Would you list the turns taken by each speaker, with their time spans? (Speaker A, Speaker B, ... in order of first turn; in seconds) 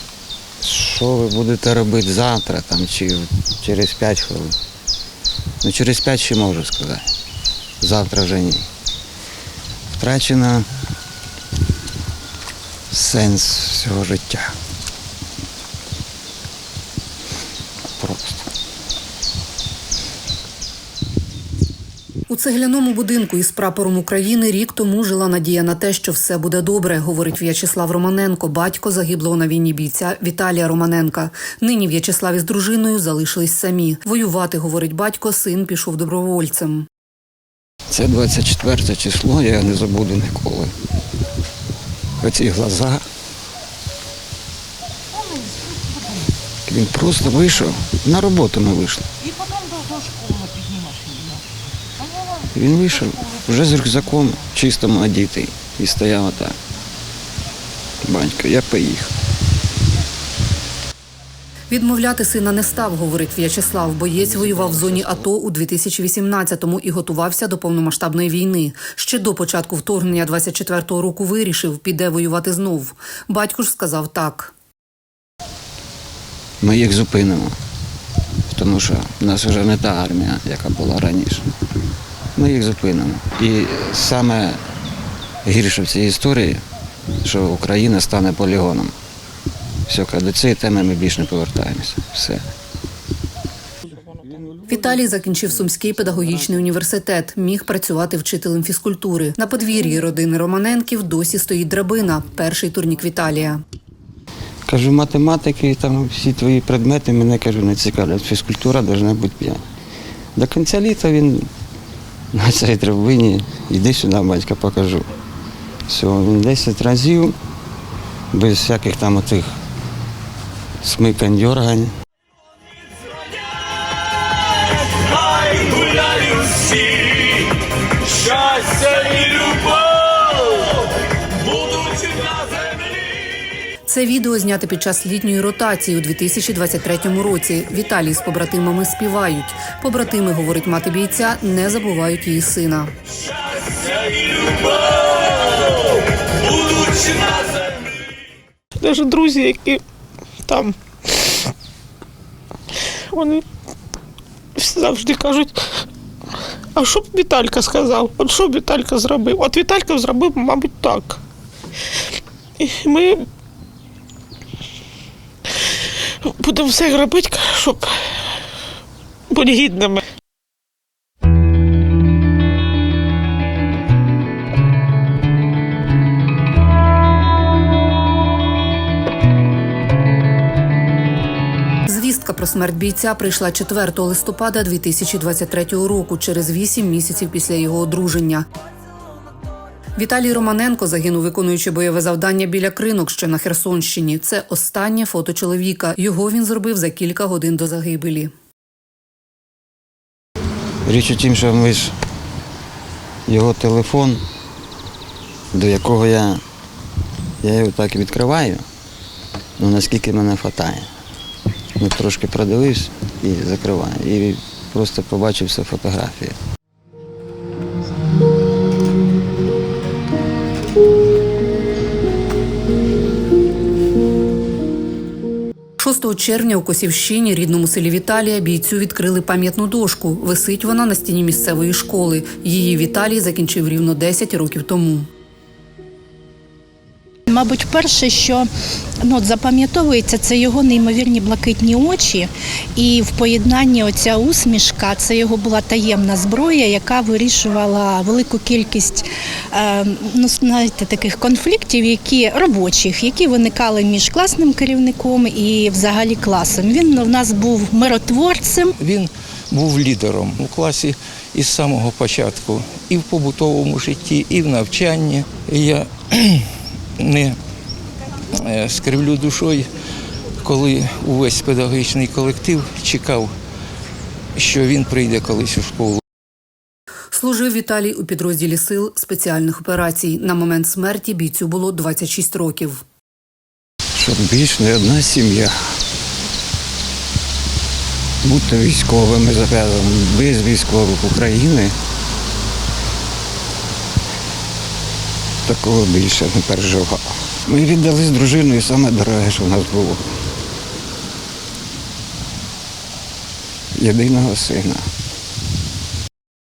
Speaker A: 0.6-4.6, 5.6-7.1, 7.8-8.7, 10.0-10.7, 12.9-14.6, 18.0-18.4, 37.9-40.7, 42.2-43.0, 46.7-49.1, 52.5-56.6, 58.0-59.1, 64.5-65.2, 76.6-77.5, 78.5-81.5, 82.4-84.6, 85.5-86.6, 87.2-88.9, 89.9-92.4, 104.7-109.6, 110.4-111.5, 112.3-115.1, 115.9-117.4, 118.3-119.6, 120.8-121.9, 125.2-127.0, 128.3-129.8, 200.9-201.9, 203.3-204.2, 205.5-206.4, 207.4-208.7, 209.6-210.9, 211.8-216.4, 283.9-285.6, 288.2-291.8, 295.4-300.0, 303.8-304.8
Speaker B: 22.3-36.9, 61.7-74.5, 94.6-103.6, 133.9-142.9, 181.9-188.5, 190.0-198.3, 225.8-235.1, 277.1-282.8
Speaker C: 146.8-147.3, 148.8-149.8, 150.4-151.3, 153.1-153.4, 154.6-155.8, 156.8-161.2, 162.6-163.3, 166.2-168.1, 169.3-170.0
Speaker D: 237.3-238.5, 239.0-258.7
Speaker E: 258.8-266.5, 267.0-267.4, 268.4-269.7, 270.4-273.3, 274.4-276.0